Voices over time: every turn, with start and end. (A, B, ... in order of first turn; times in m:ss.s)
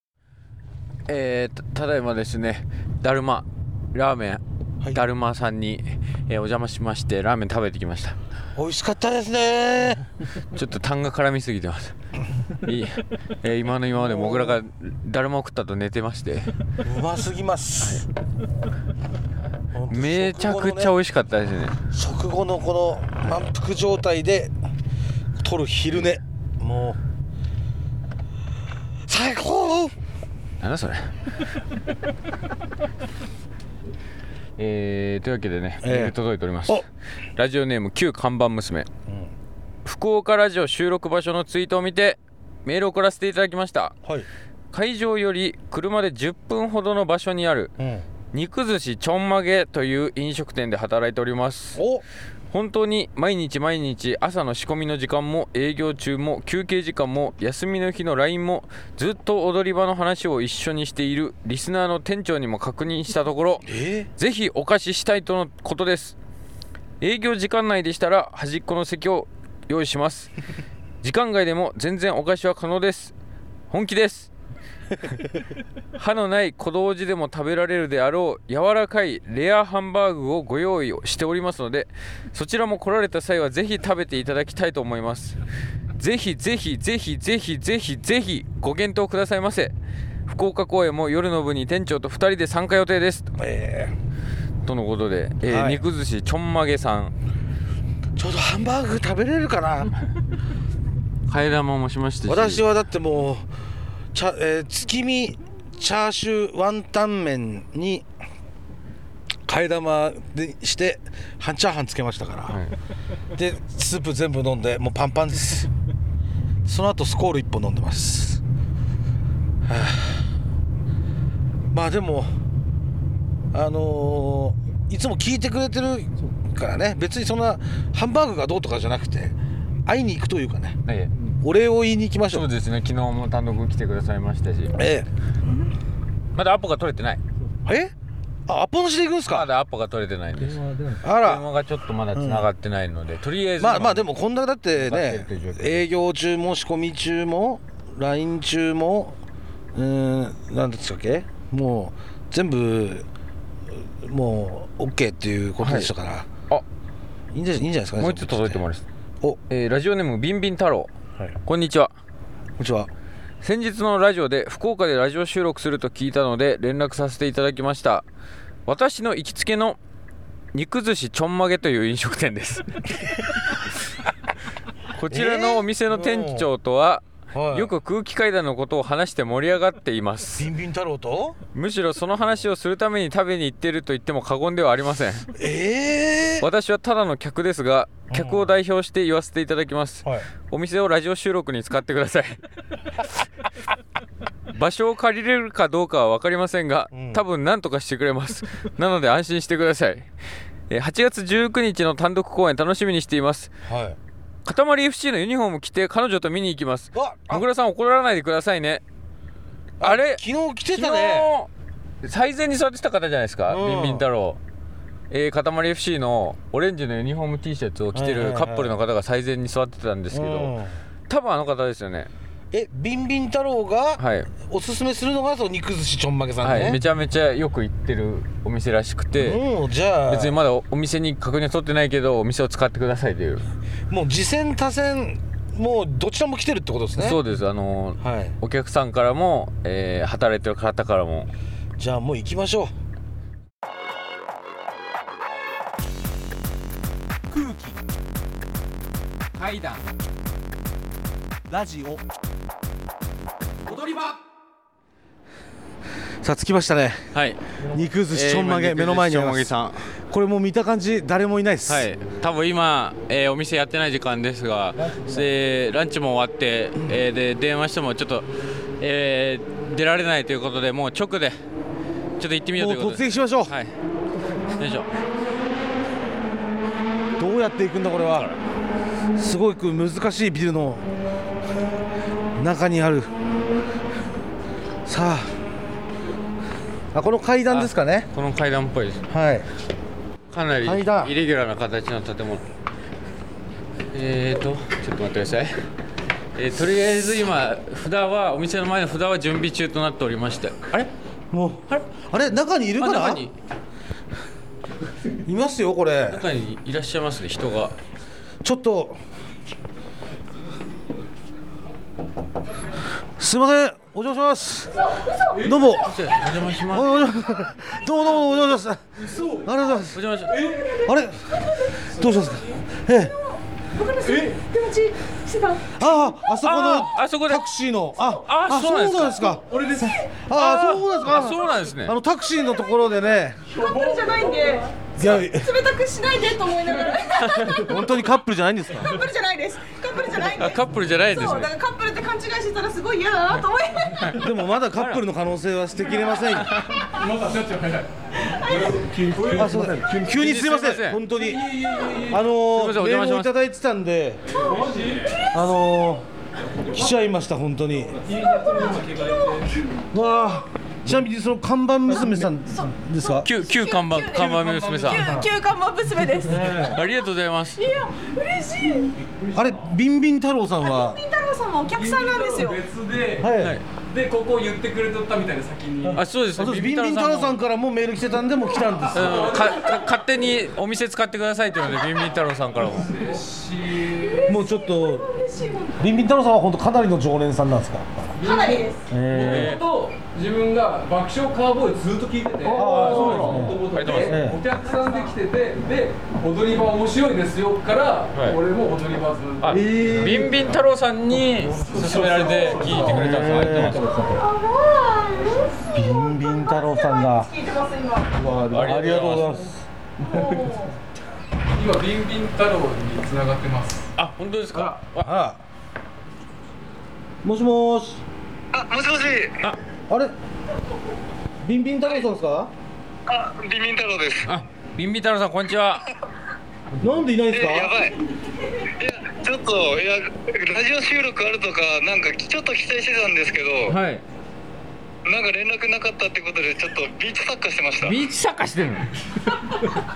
0:01.1-0:08.2 A
0:08.6-0:10.1 B
0:10.5-0:12.0 A
0:12.6-0:16.5 A
0:13.9-0:14.6 B
0:16.8-0:18.1 B
0:19.7-0:21.0 B
0:19.9-0:21.8 A
0:21.9-0:24.5 B
0:25.4-0:27.0 B
0:29.1-0:29.9 B
0:30.6-0:31.2 A
0:34.6-0:36.9 A
0:35.8-0:36.8 B
0:37.4-0:38.9 A
0:39.1-0:39.3 B
0:39.8-0:44.0 A
0:44.7-0:47.7 A
0:47.8-0:48.1 B
0:48.3-0:51.8 A
0:51.8-0:52.0 B
0:52.5-1:06.2 A
1:03.7-1:04.1 B
1:07.0-1:10.3 A
1:11.0-1:13.1 A
1:13.7-1:14.3 A
1:16.0-1:25.4 A
1:26.0-1:29.7 A
1:30.3-1:33.3 A
1:33.4-1:34.0 B
1:34.6-1:37.1 A
1:35.5-1:35.8 B
1:38.2-1:39.9 B
1:41.3-1:42.6 A
1:42.3-1:43.5 B
1:44.1-1:48.1 B
1:49.5-1:52.6 B
1:53.3-1:55.7 B
1:56.6-1:58.4 B
1:59.6-2:00.3 B
2:01.7-2:02.3 B
2:03.5-2:12.4 B
2:10.9-2:11.1 A
2:12.3-2:14.8 A
2:14.8-2:15.1 B
2:16.4-2:17.2 A
2:17.6-2:17.9 B
2:18.5-2:19.5 B
2:19.2-2:24.1 A
2:20.8-2:21.4 B
2:22.1-2:22.5 B
2:23.6-2:29.2 B
2:24.7-2:25.9 A
2:29.7-2:33.1 B
2:33.7-2:36.3 B
2:35.6-2:35.9 A
2:37.3-2:38.6 B
2:38.0-2:38.8 A
2:39.5-2:40.9 A
2:41.5-2:41.9 A
2:42.6-2:42.9 B
2:43.4-2:48.1 A
2:48.7-2:49.8 A
2:50.5-2:52.8 A
2:55.0-3:00.5 A
2:55.1-2:56.5 B
2:57.3-2:57.7 B
3:00.4-3:01.4 B
3:01.6-3:05.3 A
3:05.4-3:06.4 B
3:06.4-3:12.4 A
3:08.1-3:08.5 B
3:14.5-3:20.1 A
3:16.9-3:17.2 B
3:20.7-3:23.5 A
3:23.6-3:24.0 B
3:24.4-3:28.8 A
3:26.9-3:27.4 B
3:29.8-3:31.3 B
3:29.8-3:31.5 A
3:32.0-3:34.4 A
3:33.5-3:34.1 B
3:35.1-3:40.5 A
3:37.9-3:38.8 B
3:40.1-3:40.8 B
3:41.1-3:42.1 A
3:42.5-3:46.8 B
3:44.0-3:44.3 A
3:46.4-3:49.4 A
3:49.2-3:50.4 B
3:50.1-3:53.4 A
3:53.9-3:57.2 B
3:57.0-4:01.3 A
3:58.0-3:58.4 B
4:01.8-4:02.7 B
4:07.3-4:07.8 B
4:09.4-4:09.8 A
4:11.5-4:12.0 B
4:13.7-4:14.2 B
4:16.2-4:17.1 B
4:17.1-4:17.4 A
4:17.6-4:19.6 B
4:18.0-4:19.9 A
4:20.1-4:21.9 B
4:21.7-4:31.4 A
4:24.8-4:25.2 B
4:32.2-4:33.7 A
4:32.6-4:33.6 B
4:34.6-4:34.9 A
4:37.2-4:38.4 B
4:39.2-4:40.9 B
4:42.4-4:43.1 B
4:44.9-4:45.4 B
4:46.9-4:48.1 B
4:47.5-4:49.0 A
4:49.1-4:49.5 B
4:50.3-4:52.4 A
4:50.6-4:51.1 B
4:53.9-4:55.6 A
4:56.4-5:00.9 A
5:01.3-5:03.3 B
5:02.8-5:03.3 A
5:05.2-5:06.2 B
5:06.1-5:07.8 A
5:08.4-5:09.0 B
5:13.2-5:14.7 B
5:15.0-5:15.4 C
5:15.4-5:16.0 B
5:15.8-5:17.1 A
5:16.6-5:20.0 B
5:19.1-5:19.5 D
5:19.9-5:20.4 A
5:20.3-5:20.7 D
5:20.5-5:20.8 C
5:20.8-5:21.3 B
5:21.4-5:21.8 C
5:21.9-5:23.1 B
5:23.8-5:25.8 C
5:24.0-5:24.4 D
5:25.7-5:33.4 B
5:26.4-5:27.4 A
5:28.0-5:29.4 A
5:29.4-5:30.0 D
5:29.7-5:30.1 C
5:30.3-5:32.0 A
5:33.5-5:34.6 D
5:33.5-5:37.8 C
5:35.0-5:35.5 B
5:37.2-5:37.6 A
5:37.6-5:39.0 B
5:38.7-5:44.1 C
5:40.4-5:41.5 A
5:44.2-5:46.6 B
5:44.7-5:45.0 A
5:46.4-5:46.8 A
5:46.8-5:50.1 D
5:48.4-5:48.9 C
5:49.3-5:54.4 B
5:50.0-5:51.0 A
5:51.1-5:52.3 D
5:52.4-5:53.3 A
5:54.3-5:55.3 D
5:54.4-5:55.4 C
5:55.3-5:56.1 B
5:56.7-5:58.0 B
5:58.0-5:59.5 D
5:58.1-5:59.5 C
5:59.9-6:03.3 B
6:02.5-6:06.8 C
6:03.2-6:05.1 A
6:04.3-6:05.2 D
6:06.3-6:06.8 B
6:06.7-6:07.6 A
6:07.6-6:09.0 C
6:09.1-6:09.6 D
6:09.3-6:11.0 B
6:10.6-6:12.6 C
6:11.7-6:16.0 D
6:13.2-6:13.6 B
6:13.4-6:13.6 A
6:16.0-6:17.4 A
6:16.4-6:19.4 B
6:18.8-6:19.9 D
6:18.9-6:23.1 A
6:21.9-6:24.4 D
6:23.7-6:26.1 C
6:24.3-6:25.1 B
6:25.8-6:28.1 B
6:28.2-6:28.9 C
6:28.2-6:40.6 D
6:28.9-6:29.6 B
6:29.2-6:29.6 A
6:32.5-6:34.4 B
6:32.6-6:34.2 A
6:34.7-6:35.1 C
6:39.4-6:43.9 A
6:39.5-6:40.3 B
6:41.4-6:44.1 D
6:42.8-6:43.9 B
6:44.1-6:48.2 C
6:45.7-6:47.3 B
6:48.5-6:49.4 A
6:48.5-6:49.6 B
6:50.0-6:50.8 C
6:51.6-6:53.9 D
6:54.0-6:55.1 A
6:54.5-6:55.4 B
6:57.2-6:58.0 B
6:58.5-6:59.3 E
6:59.9-7:00.1 B
7:01.4-7:02.5 B
7:03.1-7:04.3 E
7:04.3-7:05.8 A
7:06.8-7:07.8 B
7:07.3-7:07.9 E
7:08.8-7:13.8 E
7:13.7-7:14.0 A
7:15.1-7:18.0 E
7:17.8-7:18.9 A